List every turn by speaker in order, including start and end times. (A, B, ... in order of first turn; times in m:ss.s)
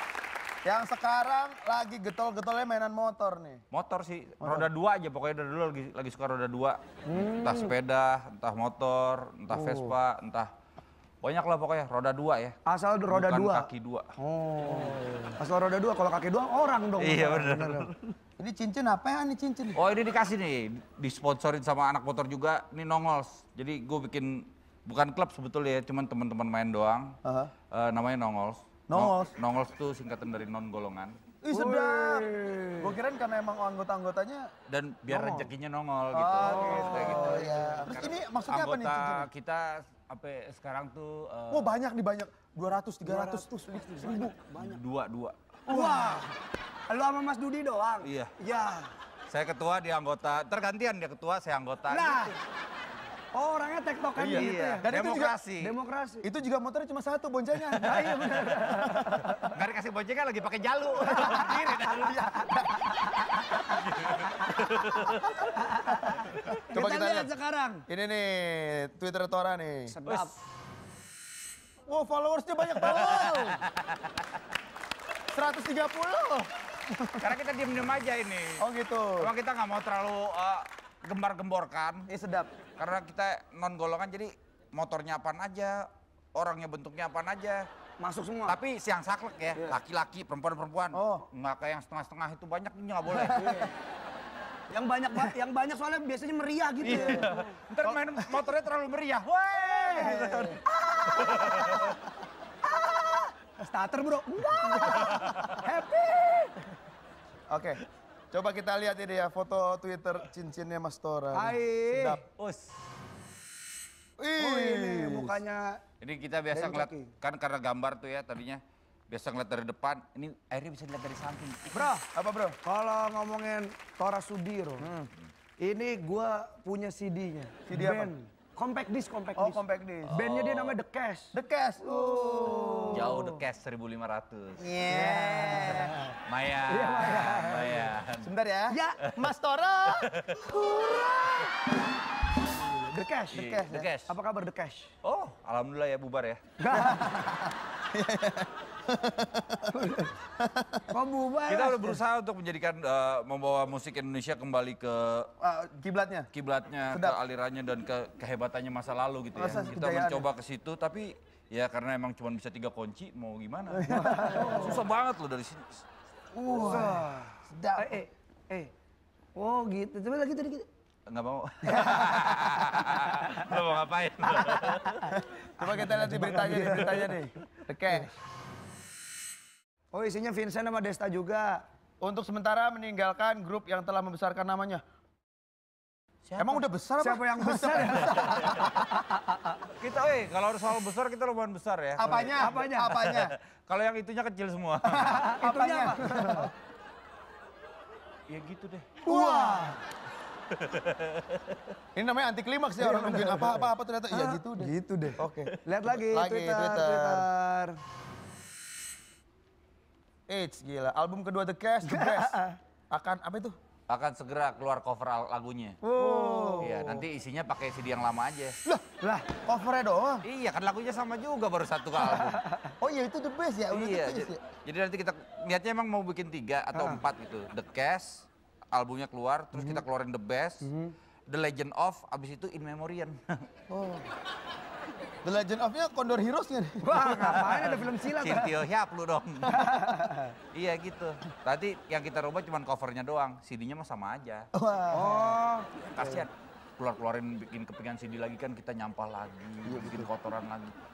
0:00.6-0:03.6 A
0:03.7-0:10.5 B
0:04.4-0:04.7 A
0:07.1-0:07.7 C
0:09.5-0:10.0 C
0:11.2-0:12.6 B
0:12.7-0:17.9 C
0:13.1-0:14.1 B
0:17.0-0:18.1 B
0:18.4-0:19.8 A
0:19.8-0:27.2 B
0:27.2-0:27.5 A
0:27.7-0:31.2 B
0:28.9-0:29.3 A
0:31.4-0:34.5 A
0:31.5-0:33.0 C
0:34.7-0:41.7 B
0:35.1-0:35.5 A
0:36.1-0:39.3 A
0:36.4-0:38.1 C
0:41.5-0:44.3 A
0:43.0-0:44.8 C
0:44.6-0:45.4 B
0:45.7-0:46.3 A
0:45.7-0:46.3 C
0:46.9-0:48.9 C
0:48.0-0:48.3 B
0:49.3-0:52.3 B
0:51.9-0:52.4 C
0:53.3-0:54.8 C
0:54.2-0:55.4 A
0:54.3-0:55.8 B
0:55.6-0:56.3 C
0:56.2-0:59.3 A
0:57.8-0:59.5 C
0:59.4-1:02.3 B
1:01.1-1:01.6 C
1:01.2-1:02.8 A
1:02.9-1:03.6 C
1:03.6-1:05.6 B
1:05.4-1:07.8 C
1:06.4-1:06.6 B
1:06.7-1:07.3 A
1:07.9-1:10.0 A
1:09.9-1:10.4 C
1:10.1-1:10.3 B
1:11.9-1:13.6 A
1:12.9-1:14.1 B
1:15.3-1:17.3 A
1:17.2-1:18.7 B
1:18.6-1:19.3 A
1:19.2-1:22.1 B
1:22.1-1:22.5 A
1:22.8-1:27.7 B
1:28.0-1:28.6 C
1:28.5-1:33.4 B
1:30.9-1:31.3 A
1:33.2-1:33.7 A
1:34.7-1:37.4 C
1:36.8-1:42.0 B
1:36.9-1:37.3 A
1:37.8-1:38.4 A
1:39.9-1:40.6 A
1:40.0-1:42.0 C
1:42.7-1:46.6 C
1:44.6-1:45.5 A
1:45.1-1:45.4 B
1:47.5-1:52.2 A
1:51.3-1:52.2 C
1:52.4-1:52.7 B
1:54.2-1:55.4 A
1:54.4-1:55.8 C
1:56.0-2:02.0 B
1:56.5-1:57.1 C
2:01.7-2:02.1 C
2:02.1-2:02.6 A
2:02.6-2:04.9 C
2:04.8-2:05.1 A
2:05.6-2:13.4 C
2:07.7-2:08.1 A
2:09.4-2:10.2 A
2:10.1-2:10.8 B
2:11.3-2:13.2 A
2:12.9-2:14.6 B
2:14.6-2:16.0 A
2:14.9-2:16.1 C
2:16.3-2:18.3 B
2:16.7-2:17.9 C
2:18.2-2:21.0 A
2:18.7-2:19.0 C
2:20.0-2:20.5 B
2:22.7-2:23.4 C
2:23.3-2:23.9 A
2:23.3-2:24.2 B
2:24.1-2:24.9 C
2:25.0-2:26.4 B
2:26.6-2:27.2 C
2:26.7-2:29.8 A
2:29.7-2:30.1 C
2:30.4-2:30.9 A
2:30.9-2:32.0 C
2:31.5-2:35.3 B
2:35.4-2:36.3 A
2:36.3-2:45.9 B
2:36.9-2:37.2 A
2:39.4-2:40.3 A
2:43.7-2:44.7 A
2:43.9-2:44.8 C
2:46.3-2:48.0 A
2:46.5-2:48.7 C
2:49.4-2:50.7 C
2:51.1-2:55.1 B
2:51.6-2:53.5 C
2:54.3-2:57.1 C
2:55.1-2:58.1 A
2:59.9-3:01.6 C
3:02.0-3:04.8 A
3:06.3-3:06.6 B
3:06.4-3:08.9 A
3:07.0-3:09.6 C
3:09.8-3:15.2 B
3:12.0-3:13.3 A
3:12.1-3:12.9 C
3:14.9-3:16.5 A
3:14.9-3:16.5 C
3:18.3-3:19.0 B
3:19.0-3:19.8 A
3:19.0-3:19.8 C
3:20.5-3:21.4 B
3:22.0-3:27.3 A
3:22.8-3:27.8 C
3:30.3-3:32.4 A
3:31.8-3:32.6 C
3:32.9-3:33.6 A
3:33.9-3:35.8 B
3:35.8-3:36.8 C
3:36.0-3:37.1 A
3:36.6-3:38.6 B
3:39.0-3:39.3 C
3:39.5-3:40.2 A
3:40.2-3:42.4 B
3:42.1-3:42.7 C
3:42.8-3:44.4 A
3:43.7-3:50.7 B
3:46.7-3:47.0 C
3:50.6-3:50.9 C
3:51.3-3:53.2 B
3:53.7-3:54.1 A
3:55.2-3:57.4 A
3:56.8-3:58.6 C
3:57.0-3:59.6 B
3:59.6-4:00.3 C
4:00.5-4:04.5 B
4:04.5-4:05.4 A
4:04.9-4:05.7 C
4:06.0-4:10.7 B
4:09.6-4:10.1 A